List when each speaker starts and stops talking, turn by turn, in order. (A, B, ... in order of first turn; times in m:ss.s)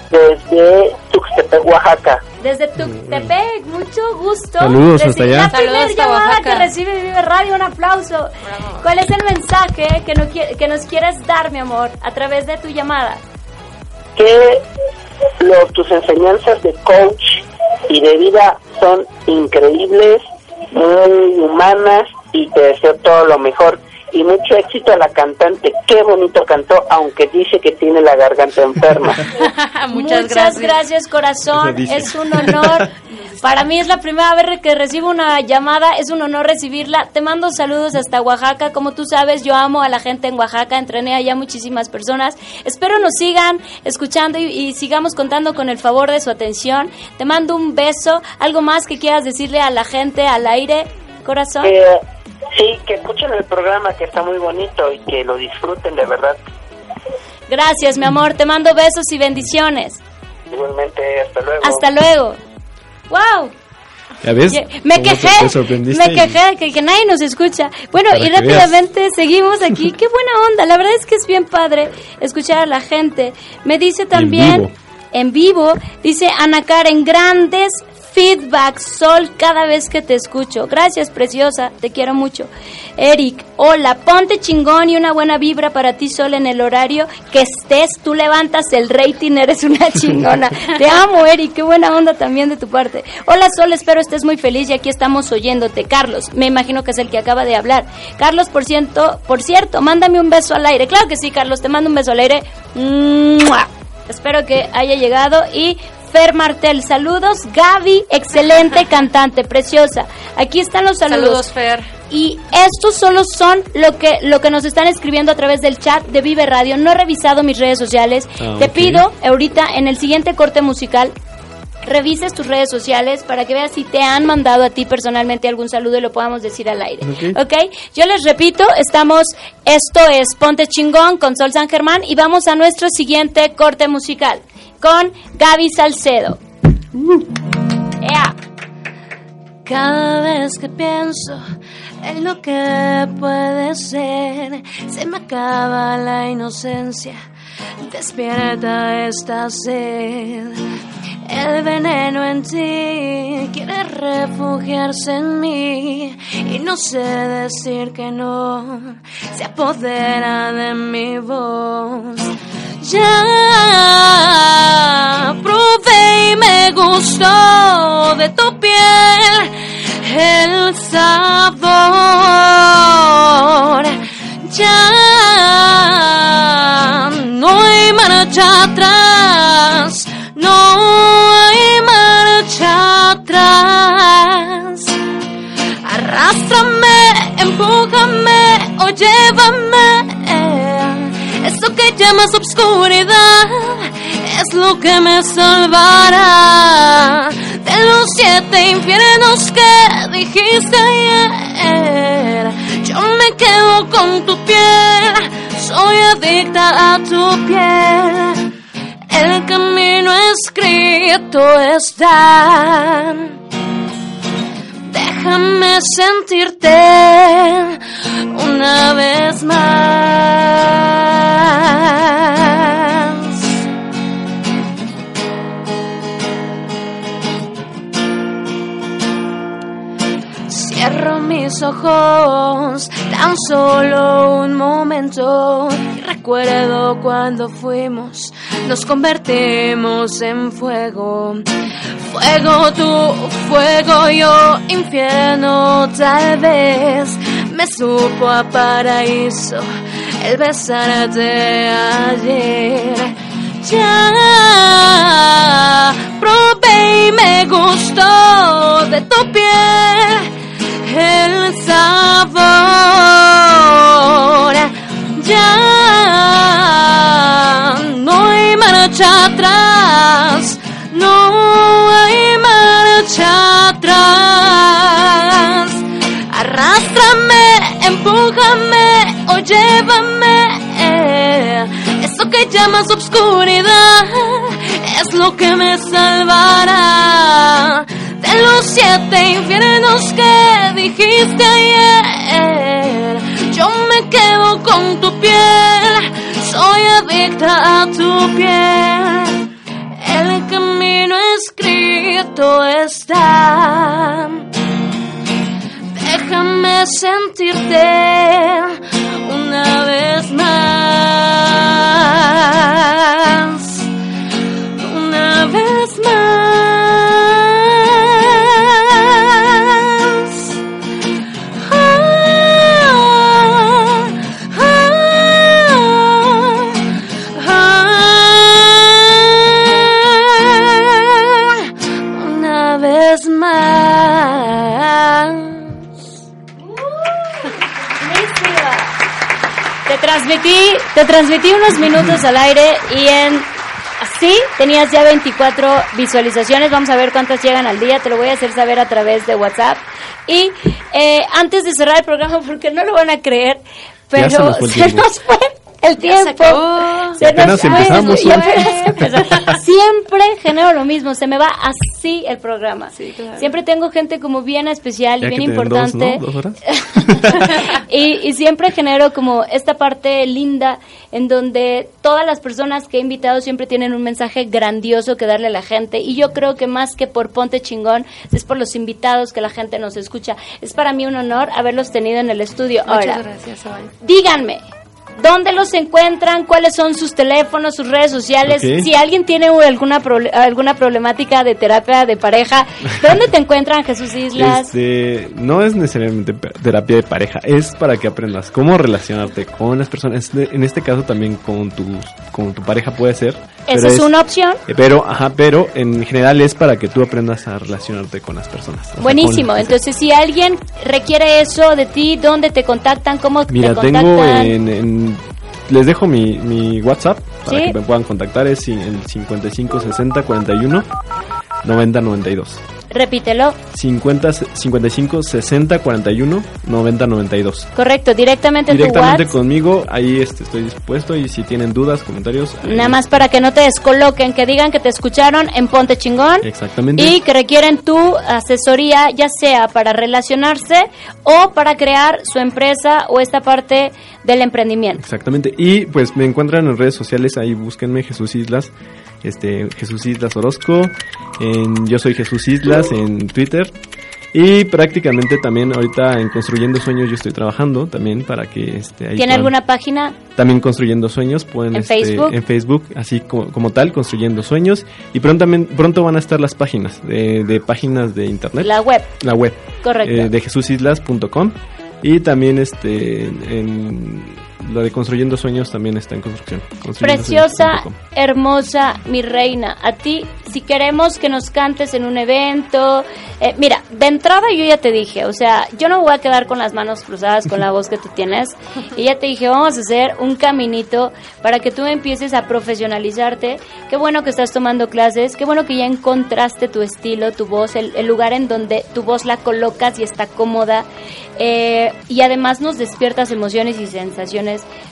0:00.1-0:02.2 A
0:02.4-0:13.2 B
0:02.8-0:03.3 C
0:04.6-0:05.5 C
0:05.5-0:06.7 D
0:08.4-0:08.8 D
0:14.2-0:14.6 A
0:15.4-0:29.2 A
0:29.3-0:30.8 D
0:29.9-0:32.9 B
0:31.5-0:32.9 C
0:33.1-0:33.4 D
0:33.4-0:51.7 B
0:51.6-0:52.0 A
0:52.6-0:56.4 A
0:57.5-1:00.0 B
1:00.5-1:01.8 A
1:01.6-1:02.4 B
1:03.1-1:03.5 B
1:04.2-1:06.4 C
1:04.5-1:51.4 B
1:08.1-1:08.8 C
1:14.1-1:14.7 C
1:51.0-1:51.9 D
1:52.1-2:01.1 B
1:58.4-1:59.0 C
2:01.8-2:16.4 B
2:07.0-2:07.4 C
2:18.0-2:18.3 B
2:19.6-2:21.4 E
2:22.0-2:27.2 E
2:27.9-2:30.6 E
2:31.3-2:42.3 E
2:42.8-3:05.0 E
3:05.8-3:28.5 E
3:29.1-3:33.3 E
3:34.9-3:37.8 E
3:38.3-3:43.4 E
3:50.5-4:01.4 E
4:02.0-4:09.7 E
4:10.2-4:20.3 E
4:20.8-4:59.4 E
5:00.0-5:04.4 E
5:06.0-5:13.9 E
5:14.8-5:20.6 E
5:21.5-5:26.8 E
5:27.3-5:35.8 E
5:36.8-5:38.9 B
5:39.9-5:43.5 B
5:44.0-6:23.2 B
5:54.1-5:55.1 C
5:56.0-5:59.1 D
5:57.2-5:59.6 C
6:02.9-6:03.5 D
6:05.2-6:07.6 C
6:22.8-6:23.9 D
6:24.0-6:24.6 B
6:25.2-6:34.7 B
6:28.4-6:28.9 C
6:34.4-6:44.1 C
6:43.7-6:44.6 B
6:44.7-6:49.8 C
6:49.0-6:54.5 B
6:53.5-7:00.9 C
6:57.5-6:57.8 B
7:01.6-7:02.6 C
7:02.9-7:03.6 B
7:03.7-7:07.7 C
7:07.8-7:09.3 B
7:08.7-7:13.2 C
7:12.6-7:25.0 B
7:16.4-7:17.2 C
7:25.0-7:33.7 C
7:34.3-7:39.5 C
7:39.2-7:40.2 B
7:40.3-7:58.0 C
7:41.7-7:42.3 B
7:48.6-7:49.1 B
7:49.8-7:50.3 B
7:57.0-8:24.6 B